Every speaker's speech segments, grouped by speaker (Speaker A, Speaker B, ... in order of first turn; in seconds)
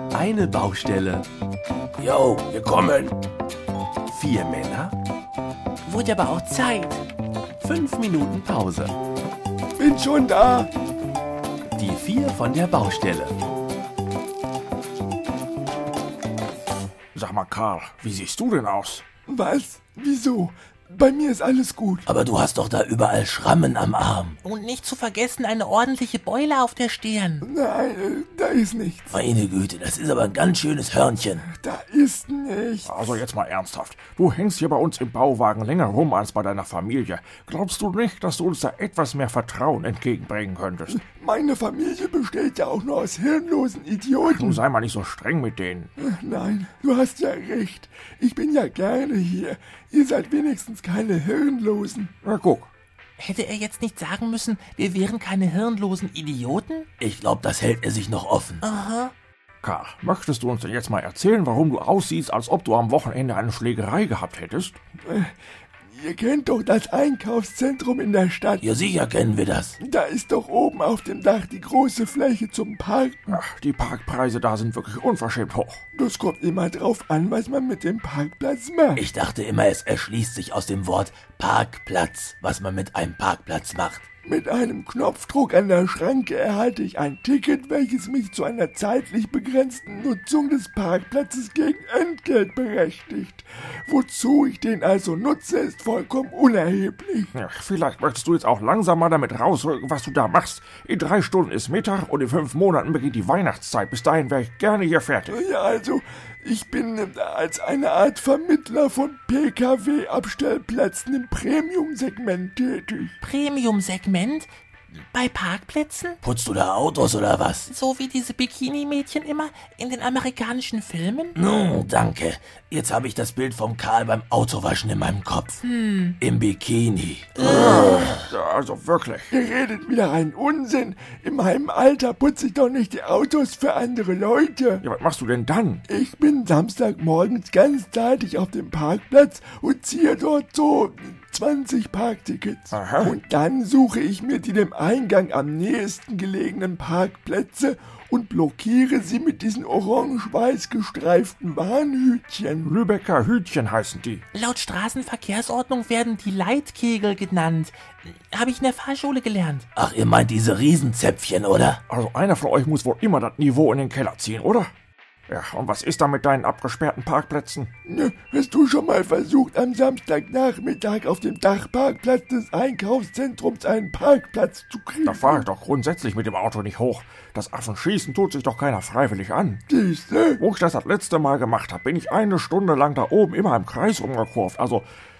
Speaker A: 0.1-1.3, 4.1-5.0, 7.6-8.9, 11.8-13.3
Speaker B: 2.0-3.2, 22.1-24.4, 29.1-31.4, 57.0-58.6, 68.6-69.8, 79.0-84.0, 116.2-117.7, 121.4-125.6, 126.2-128.3, 159.8-161.8
Speaker C: 5.9-7.0, 24.4-27.5, 53.2-56.9, 58.6-59.1, 113.2-116.2, 117.7-121.4, 125.6-126.2, 127.4-128.0, 154.3-159.7
Speaker D: 9.8-10.7, 19.3-22.1, 27.4-29.2, 31.4-33.2, 40.9-44.6, 46.0-52.1, 65.0-65.3, 65.9-68.6, 69.8-73.4, 75.9-79.1, 84.2-97.3, 105.3-113.2, 129.3-134.8, 135.9-152.7, 167.9-175.5, 179.7-180.4
Speaker E: 17.1-19.0, 32.9-41.0, 44.2-45.9, 52.2-52.7, 59.6-64.8, 73.3-75.8, 97.3-105.4, 127.4-129.3, 134.8-135.9, 142.7-143.2, 152.6-154.2, 161.9-164.7, 165.3-167.7, 175.1-179.6, 180.4-184.9